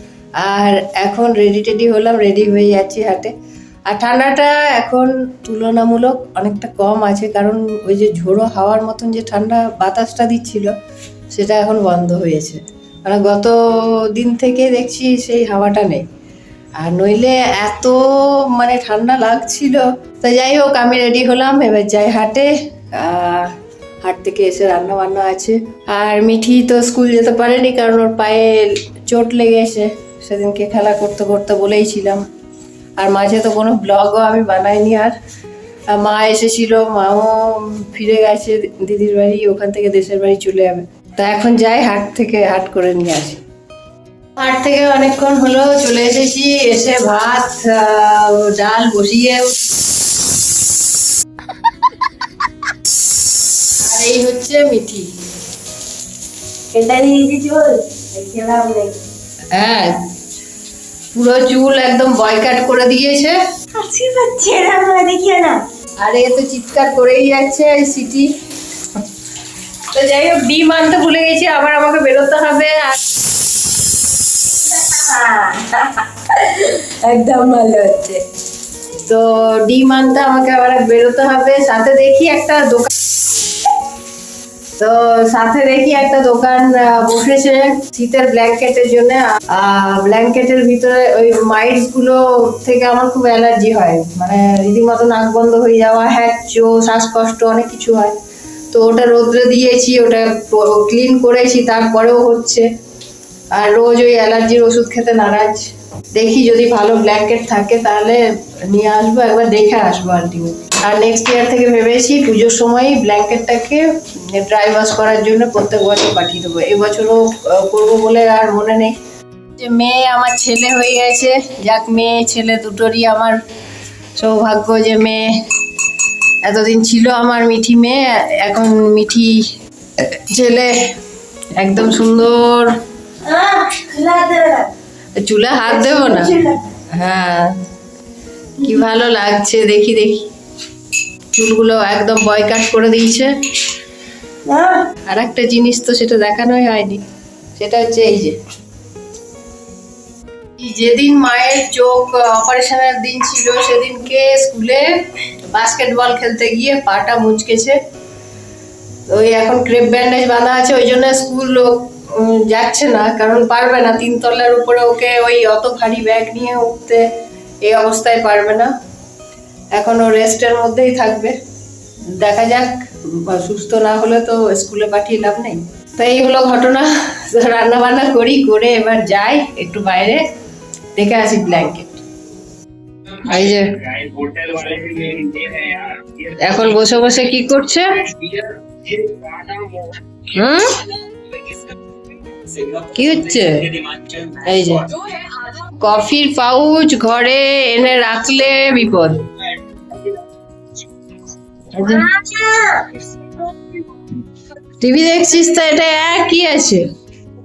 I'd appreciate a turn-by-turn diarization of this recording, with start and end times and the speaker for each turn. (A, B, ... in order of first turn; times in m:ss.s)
0:00.4-0:03.3 A
0:03.9-0:10.7 A
0:11.3-0:16.0 A
0:16.8-0:32.3 A
0:33.0-0:35.2 A
0:35.9-0:43.4 A
0:44.4-0:49.6 A
0:53.8-0:55.1 A
0:56.7-0:59.0 B
0:59.5-1:00.0 A
1:01.1-1:03.4 A
1:03.7-1:05.6 B
1:06.0-1:08.3 A
1:09.9-1:13.0 A
1:14.6-1:18.2 B
1:19.0-1:22.9 A
1:24.8-1:38.2 A
1:38.7-1:42.7 A
1:43.5-1:59.0 A
1:59.6-2:03.4 A
2:04.2-2:05.4 A
2:06.4-2:09.5 A
2:10.2-2:10.7 A
2:11.6-2:12.8 A
2:13.2-2:14.7 B
2:15.2-2:16.4 A
2:15.7-2:16.6 B
2:16.9-2:17.6 A
2:18.6-2:20.3 A
2:21.3-2:23.3 A
2:24.5-2:24.9 B
2:25.1-2:27.0 A
2:27.6-2:28.4 A
2:30.6-2:37.8 A
2:39.1-2:47.1 A
2:47.6-2:48.7 A
2:49.7-2:51.4 A
2:52.1-3:00.2 A
3:01.0-3:02.0 A
3:03.2-3:09.1 A
3:10.3-3:10.9 A
3:12.5-3:14.9 A
3:15.7-3:19.2 A
3:21.7-3:22.2 A
3:21.9-3:22.9 B
3:24.8-3:26.9 A